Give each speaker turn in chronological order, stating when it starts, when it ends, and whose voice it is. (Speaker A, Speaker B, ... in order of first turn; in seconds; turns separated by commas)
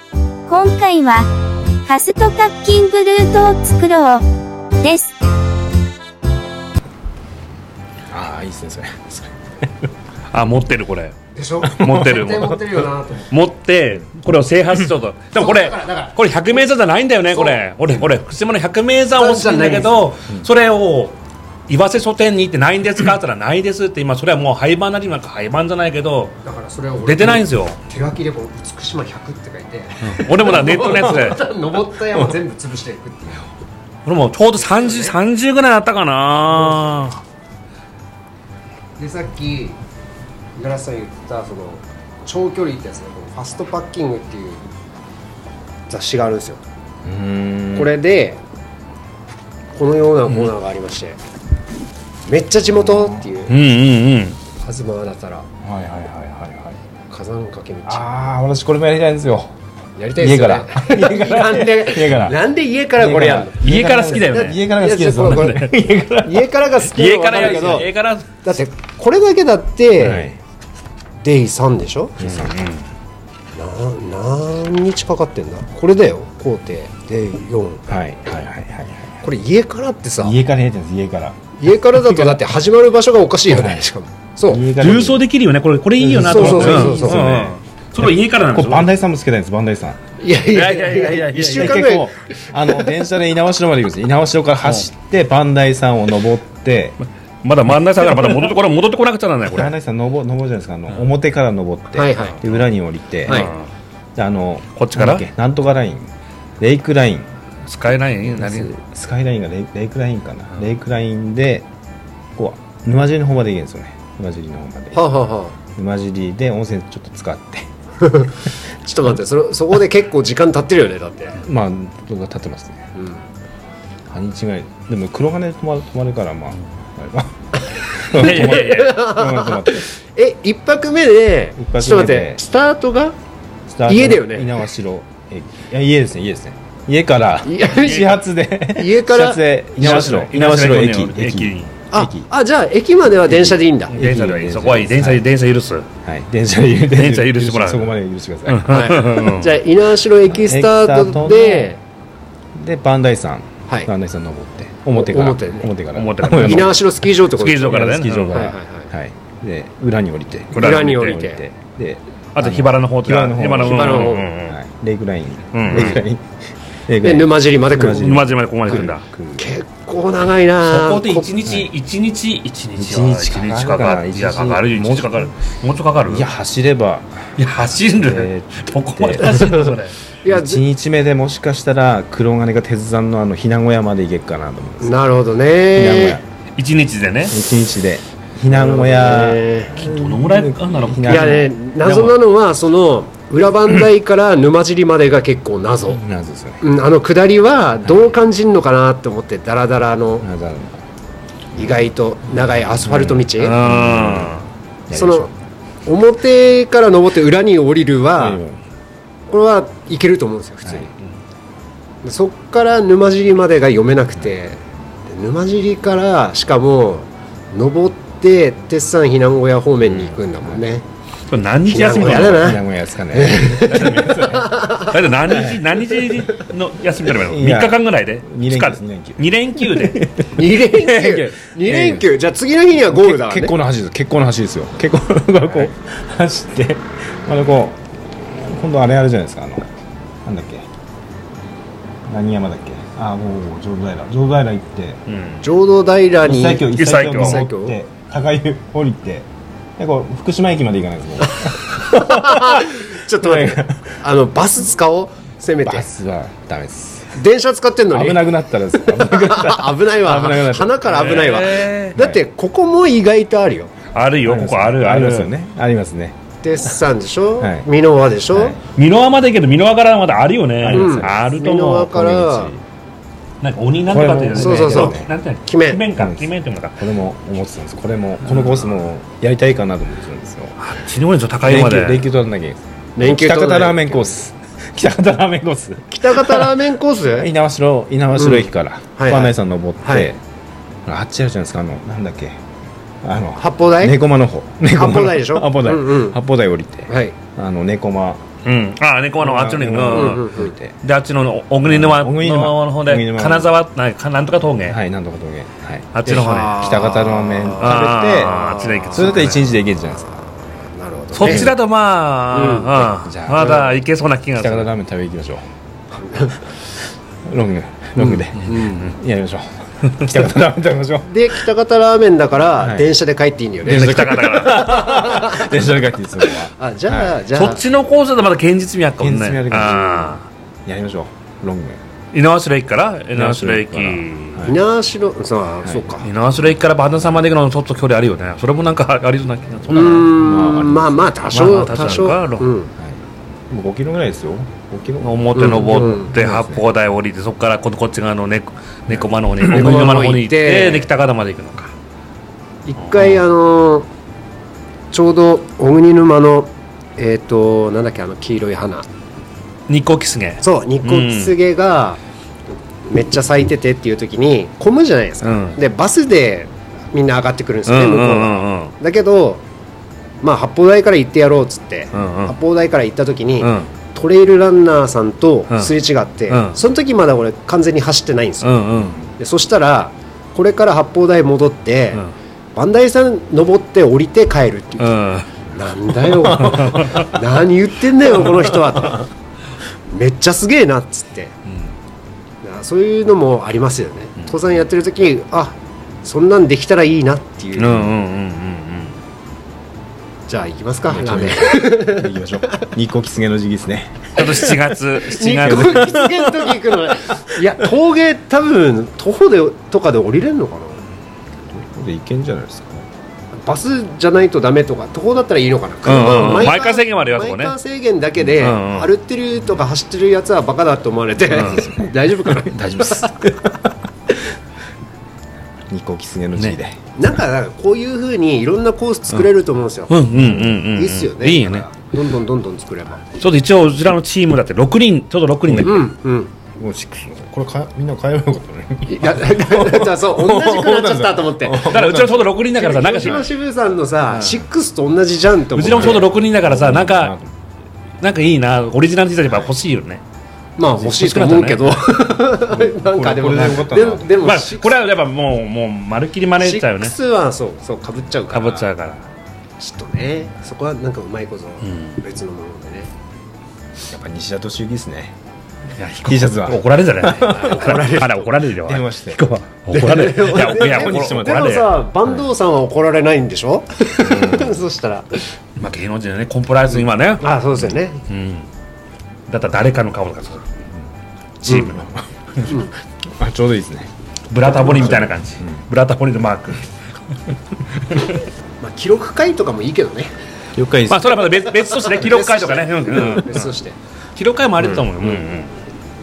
Speaker A: 0.5-1.3, Speaker A: 1.8-4.2, Speaker A: 4.8-5.1, Speaker B: 8.1-9.7, Speaker C: 10.3-11.2, Speaker D: 11.3-13.4, Speaker B: 11.6-12.6, Speaker C: 11.8-12.6, Speaker C: 13.3-21.1, Speaker D: 15.3-16.7, Speaker D: 17.2-17.6, Speaker D: 19.1-20.1, Speaker C: 21.7-26.4, Speaker D: 26.4-33.5, Speaker C: 27.0-27.8, Speaker C: 30.0-31.4, Speaker B: 30.8-31.3, Speaker C: 34.0-37.2, Speaker D: 34.5-35.1, Speaker D: 36.6-37.1, Speaker D: 39.0-39.8, Speaker D: 40.5-44.6, Speaker D: 45.9-46.6, Speaker B: 47.0-47.9, Speaker D: 47.7-48.4, Speaker D: 49.7-51.2, Speaker D: 52.2-53.6, Speaker B: 52.6-53.4, Speaker C: 53.5-54.4, Speaker D: 54.6-55.5, Speaker B: 55.6-56.8, Speaker D: 57.1-58.0, Speaker B: 57.8-59.5, Speaker D: 60.0-67.9, Speaker B: 60.2-62.4, Speaker B: 63.0-66.5, Speaker C: 63.6-64.6, Speaker C: 65.2-65.7, Speaker C: 66.9-68.3, Speaker B: 67.4-67.8, Speaker D: 68.4-70.3, Speaker B: 70.0-70.4, Speaker D: 71.2-72.2, Speaker B: 72.2-72.6, Speaker C: 72.2-72.8, Speaker D: 73.5-77.9, Speaker B: 77.9-79.2, Speaker D: 79.2-80.4, Speaker B: 80.2-82.4, Speaker D: 81.6-84.7, Speaker B: 83.5-83.9, Speaker B: 84.5-85.3, Speaker C: 84.8-88.9, Speaker B: 86.0-87.5, Speaker D: 86.2-87.5, Speaker B: 88.5-90.0, Speaker D: 90.2-92.9, Speaker C: 90.5-91.9, Speaker B: 91.5-97.0, Speaker C: 97.4-99.7, Speaker B: 99.4-103.5, Speaker D: 101.9-102.4, Speaker D: 103.2-103.5, Speaker C: 103.3-103.7, Speaker B: 104.2-107.3, Speaker C: 104.8-105.2, Speaker C: 107.7-108.7, Speaker B: 108.3-111.7, Speaker B: 112.3-115.1, Speaker D: 114.9-115.5, Speaker B: 115.7-117.7, Speaker D: 118.0-121.4, Speaker B: 121.4-122.9, Speaker D: 122.9-123.3, Speaker B: 124.1-129.9, Speaker D: 127.8-133.1, Speaker C: 128.1-129.0, Speaker B: 131.6-132.4, Speaker B: 133.7-142.3, Speaker D: 133.8-134.6, Speaker D: 137.4-138.1, Speaker C: 137.8-138.1, Speaker D: 138.7-139.4, Speaker C: 139.8-141.7, Speaker D: 141.9-143.9, Speaker B: 143.3-145.2, Speaker C: 143.9-145.9, Speaker B: 146.0-148.7, Speaker C: 146.9-147.9, Speaker C: 148.4-149.5, Speaker D: 148.7-151.8, Speaker B: 150.3-151.8, Speaker B: 152.5-156.8, Speaker D: 154.9-155.8, Speaker C: 155.9-156.7, Speaker D: 156.3-157.7, Speaker C: 157.3-158.5, Speaker B: 157.5-166.3, Speaker D: 158.3-158.9, Speaker C: 160.5-161.2, Speaker D: 160.6-161.4, Speaker C: 162.3-164.6, Speaker D: 163.6-164.3, Speaker C: 165.5-166.0, Speaker D: 165.7-166.0, Speaker B: 166.9-169.4, Speaker D: 167.0-168.1, Speaker C: 167.9-169.0, Speaker D: 169.4-171.3, Speaker C: 170.6-176.3, Speaker B: 171.4-171.7, Speaker B: 172.8-175.3, Speaker B: 176.0-177.3, Speaker C: 177.4-179.9, Speaker B: 177.9-179.8, Speaker D: 179.2-180.6, Speaker B: 180.3-185.0, Speaker D: 184.8-186.2, Speaker B: 185.7-186.2, Speaker C: 186.6-187.3, Speaker B: 187.3-192.1, Speaker D: 188.5-189.8, Speaker C: 189.8-191.4, Speaker D: 191.1-196.0, Speaker B: 195.9-196.6, Speaker D: 196.6-200.2, Speaker B: 197.8-198.2, Speaker B: 200.2-200.8, Speaker D: 201.6-203.6, Speaker B: 202.4-205.3, Speaker C: 203.4-204.5, Speaker D: 204.9-205.3, Speaker D: 205.8-208.4, Speaker B: 208.2-208.6, Speaker D: 209.3-210.9, Speaker D: 212.0-220.8, Speaker B: 219.8-220.6, Speaker C: 221.3-222.5, Speaker D: 221.7-225.0, Speaker B: 221.9-224.6, Speaker C: 223.6-230.0, Speaker B: 225.3-225.6, Speaker B: 227.0-232.1, Speaker D: 230.3-233.5, Speaker B: 232.8-237.8, Speaker B: 238.3-239.7, Speaker B: 240.2-240.7, Speaker B: 242.1-245.0, Speaker C: 245.1-245.4, Speaker D: 245.4-247.8, Speaker B: 246.2-249.3, Speaker C: 246.7-247.4, Speaker B: 249.8-254.0, Speaker D: 251.3-255.9, Speaker B: 255.6-257.2, Speaker D: 257.1-263.7, Speaker B: 257.9-261.2, Speaker C: 260.9-262.0, Speaker B: 261.9-262.2, Speaker C: 263.9-265.3, Speaker B: 264.2-266.2, Speaker D: 266.4-268.6, Speaker B: 267.4-267.7, Speaker B: 268.3-268.6, Speaker C: 268.7-271.9, Speaker B: 270.6-271.2, Speaker D: 270.7-272.5, Speaker B: 271.9-272.6, Speaker C: 273.4-276.8, Speaker B: 273.8-275.1, Speaker D: 274.3-275.8, Speaker B: 276.0-280.6, Speaker C: 278.2-278.6, Speaker C: 280.6-282.0, Speaker B: 281.4-290.2, Speaker D: 282.9-284.1, Speaker D: 286.0-287.3, Speaker D: 288.1-290.1, Speaker B: 290.9-292.4, Speaker B: 293.0-298.2, Speaker D: 293.4-294.0, Speaker D: 294.7-296.2, Speaker D: 296.9-297.1, Speaker C: 298.4-300.3, Speaker B: 299.2-300.8, Speaker D: 299.9-300.6, Speaker C: 300.8-304.8, Speaker B: 301.6-303.5, Speaker B: 304.6-310.1, Speaker C: 305.9-306.6, Speaker D: 306.1-311.5, Speaker C: 307.6-309.4, Speaker B: 311.1-311.6, Speaker C: 311.1-314.7, Speaker D: 312.3-313.7, Speaker B: 312.8-313.7, Speaker B: 314.4-315.4, Speaker D: 315.9-316.4, Speaker B: 317.2-321.1, Speaker D: 318.0-318.9, Speaker D: 321.0-327.6, Speaker B: 322.6-322.9, Speaker B: 323.6-327.2, Speaker C: 323.6-324.8, Speaker C: 327.3-330.2, Speaker B: 329.0-331.8, Speaker C: 332.1-334.5, Speaker B: 333.1-334.6, Speaker D: 334.4-336.1, Speaker B: 335.6-336.0, Speaker C: 336.0-340.0, Speaker B: 339.7-342.2, Speaker D: 339.7-342.7, Speaker C: 341.3-342.5, Speaker B: 342.8-346.6, Speaker C: 345.0-351.7, Speaker D: 345.3-346.1, Speaker D: 349.5-350.9, Speaker D: 352.6-353.9, Speaker C: 352.8-353.2, Speaker D: 354.9-358.9, Speaker C: 359.7-361.4, Speaker D: 360.4-362.0, Speaker D: 362.8-369.4, Speaker C: 365.2-365.6, Speaker C: 367.6-368.7, Speaker D: 370.2-378.6, Speaker C: 371.9-372.3, Speaker C: 373.4-373.7, Speaker C: 375.5-375.7, Speaker C: 376.3-376.6, Speaker C: 378.4-379.0, Speaker D: 379.2-382.0, Speaker D: 382.5-389.1, Speaker C: 384.8-385.3, Speaker B: 386.1-387.0, Speaker C: 386.4-387.1, Speaker D: 389.9-391.3, Speaker D: 392.4-397.9, Speaker C: 397.6-399.0, Speaker D: 400.3-402.6, Speaker B: 400.9-404.6, Speaker C: 404.1-405.9, Speaker D: 405.1-410.8, Speaker B: 405.4-407.4, Speaker B: 411.5-412.8, Speaker D: 413.4-423.3, Speaker C: 415.8-417.6, Speaker C: 418.3-418.9, Speaker B: 421.3-423.5, Speaker C: 421.4-421.7, Speaker B: 425.7-426.8, Speaker D: 426.9-433.2, Speaker C: 429.9-431.7, Speaker B: 430.1-430.5, Speaker C: 433.2-435.9, Speaker B: 435.5-435.8, Speaker D: 435.5-436.3, Speaker B: 436.6-443.3, Speaker D: 438.9-441.9, Speaker C: 441.7-443.2, Speaker D: 442.5-446.1, Speaker B: 444.1-444.4, Speaker C: 445.5-447.1, Speaker B: 445.6-447.3, Speaker C: 448.0-450.0, Speaker D: 450.6-454.7, Speaker C: 450.8-451.7, Speaker B: 452.4-454.2, Speaker C: 454.2-456.9, Speaker D: 456.4-458.7, Speaker C: 458.3-459.1, Speaker D: 459.6-462.9, Speaker C: 461.6-462.0, Speaker B: 463.9-465.1, Speaker C: 465.8-471.7, Speaker B: 466.0-468.1, Speaker D: 467.3-468.3, Speaker B: 468.6-469.2, Speaker D: 469.7-475.1, Speaker B: 469.9-472.3, Speaker B: 474.0-474.6, Speaker C: 475.6-477.2, Speaker D: 477.2-478.0, Speaker C: 478.1-478.5, Speaker C: 479.3-480.4, Speaker D: 481.4-481.8, Speaker C: 481.4-481.9, Speaker B: 481.5-482.6, Speaker D: 482.4-482.7, Speaker B: 483.2-483.9, Speaker C: 484.3-486.7, Speaker B: 484.5-485.6, Speaker D: 484.6-485.0, Speaker C: 487.8-488.2, Speaker D: 488.6-490.1, Speaker B: 490.5-491.2, Speaker C: 490.9-493.5, Speaker D: 491.4-493.8, Speaker C: 494.1-495.5, Speaker D: 494.6-495.2